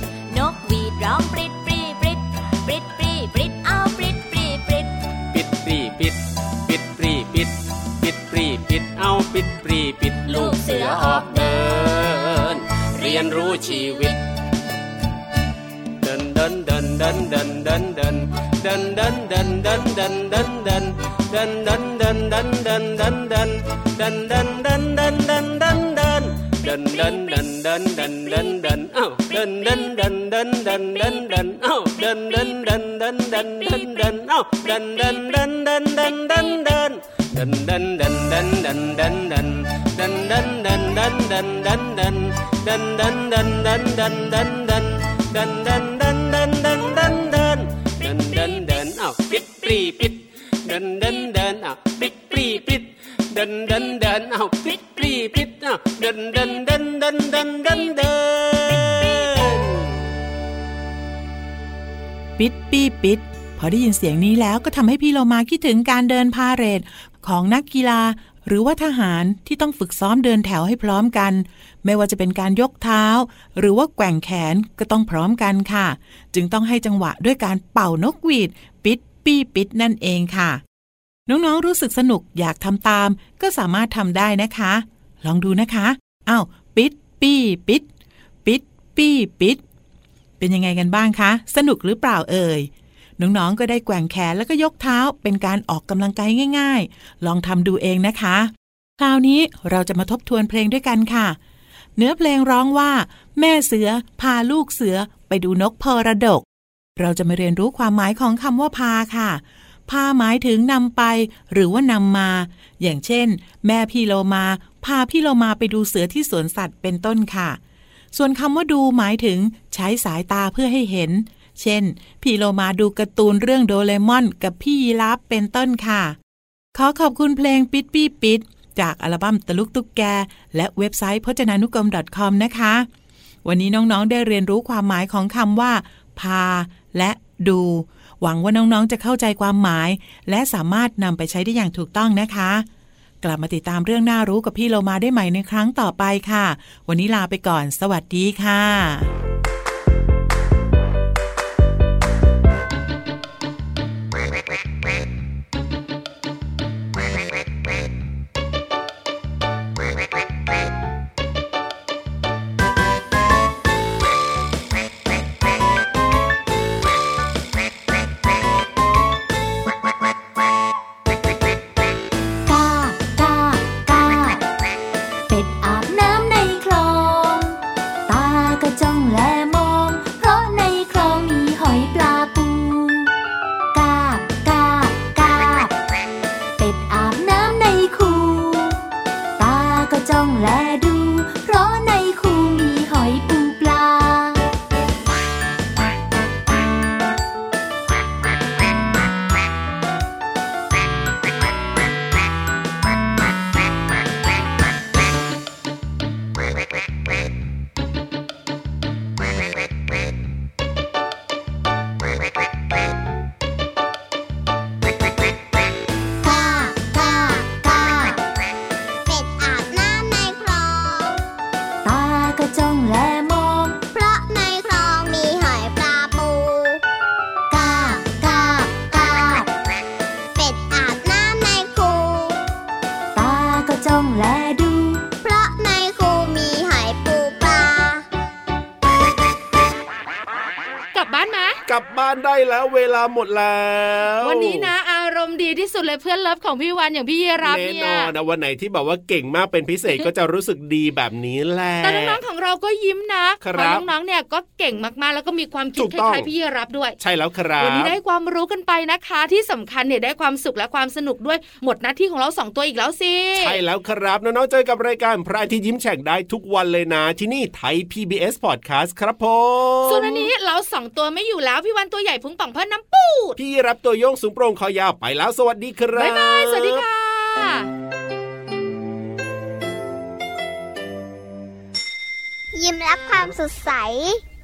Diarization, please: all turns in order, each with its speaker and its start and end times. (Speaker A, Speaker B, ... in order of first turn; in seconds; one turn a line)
Speaker A: 0.3-4.9
Speaker B: 5.3-14.2
Speaker A: 10.2-14.2
Speaker B: 16.0-60.0
Speaker A: 33.5-34.1
Speaker A: 34.8-35.4
Speaker A: 58.7-59.4
Speaker C: 62.4-80.6
Speaker C: 81.3-87.8
Speaker C: 88.4-89.6
Speaker C: 90.4-101.4
Speaker C: 102.0-106.4
Speaker C: 107.0-117.6
Speaker C: 118.1-126.2
Speaker C: 126.7-132.9
Speaker C: 133.4-142.7
Speaker C: 143.2-149.1
Speaker A: 172.4-174.4
Speaker A: 175.3-183.1
Speaker A: 183.7-185.7
Speaker A: 186.6-188.8
Speaker A: 189.4-194.4
Speaker D: 216.2-218.2
Speaker D: 219.1-221.2
Speaker A: 221.8-223.8
Speaker D: 223.9-226.8
Speaker D: 227.5-229.5
Speaker A: 227.5-228.0
Speaker D: 230.3-232.4
Speaker A: 233.1-235.1
Speaker D: 235.2-238.0
Speaker E: 240.9-241.6
Speaker F: 241.7-244.7
Speaker E: 244.2-248.1
Speaker F: 247.4-252.2
Speaker E: 251.8-257.0
Speaker F: 253.4-253.8
Speaker F: 255.8-256.3
Speaker F: 257.0-257.9
Speaker E: 257.6-263.6
Speaker F: 263.4-270.3
Speaker E: 269.8-273.4
Speaker F: 273.4-276.9
Speaker E: 275.9-277.7
Speaker D: 282.5-284.2